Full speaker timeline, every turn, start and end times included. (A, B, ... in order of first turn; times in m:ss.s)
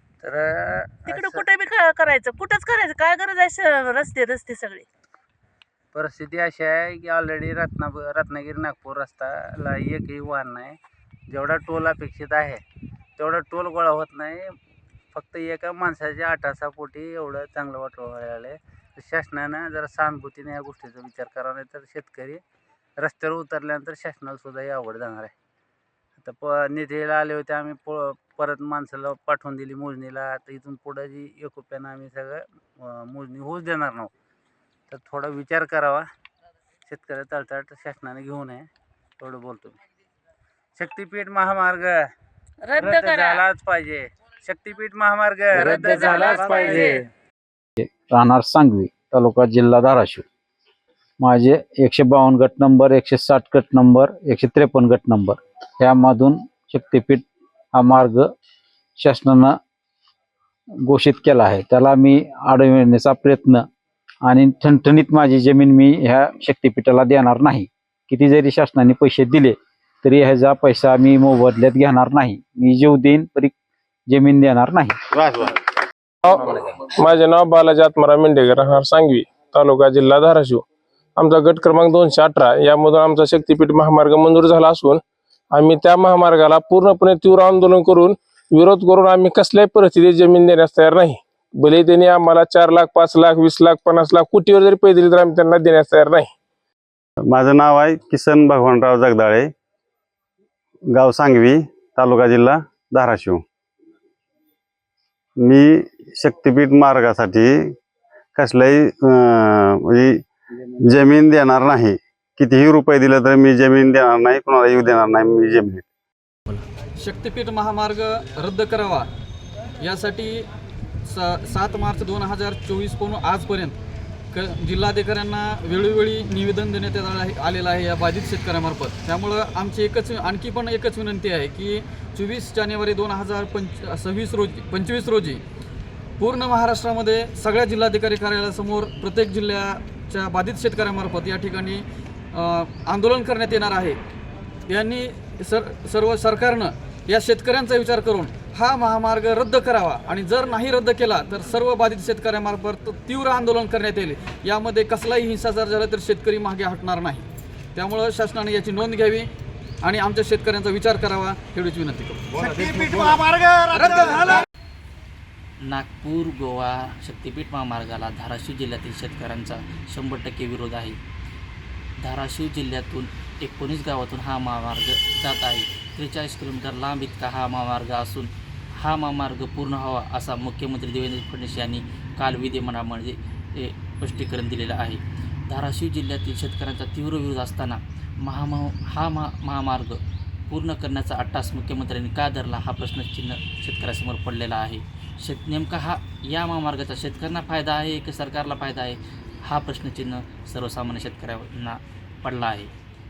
0:00.2-0:01.4 A
0:01.0-0:04.8 B
0:05.9-0:10.8 A
0:11.3-0:12.6 A
0:13.2-0:14.4 A
0:15.1-0:22.4 A
0:23.0-0:25.3 A
0:26.2-0:34.1 A
0:34.9-0:36.1 A
0:36.9-0:38.7 A
0:39.2-0:39.8 A
0:40.8-0:42.1 A
0:42.6-0:43.4 B
0:42.8-0:46.9 A
0:45.6-0:47.0 B
0:47.8-0:50.2 C
0:51.2-0:58.3 C
0:59.0-0:59.6 C
1:00.8-1:03.7 C
1:04.2-1:13.5 C
1:14.1-1:15.0 C
1:15.2-1:15.5 D
1:16.2-1:20.6 E
1:21.2-1:36.3 E
1:37.2-1:39.5 D
1:40.9-1:43.4 D
1:45.4-1:47.7 D
1:48.4-1:50.2 D
1:50.8-1:55.8 D
1:57.0-1:59.1 F
1:59.8-2:00.5 F
2:01.1-2:03.8 F
2:04.3-2:15.4 F
2:16.2-2:24.0 F
2:24.7-2:39.3 F
2:39.8-2:43.2 F
2:43.7-2:44.4 F
2:45.6-2:51.0 G
2:52.0-3:22.7 G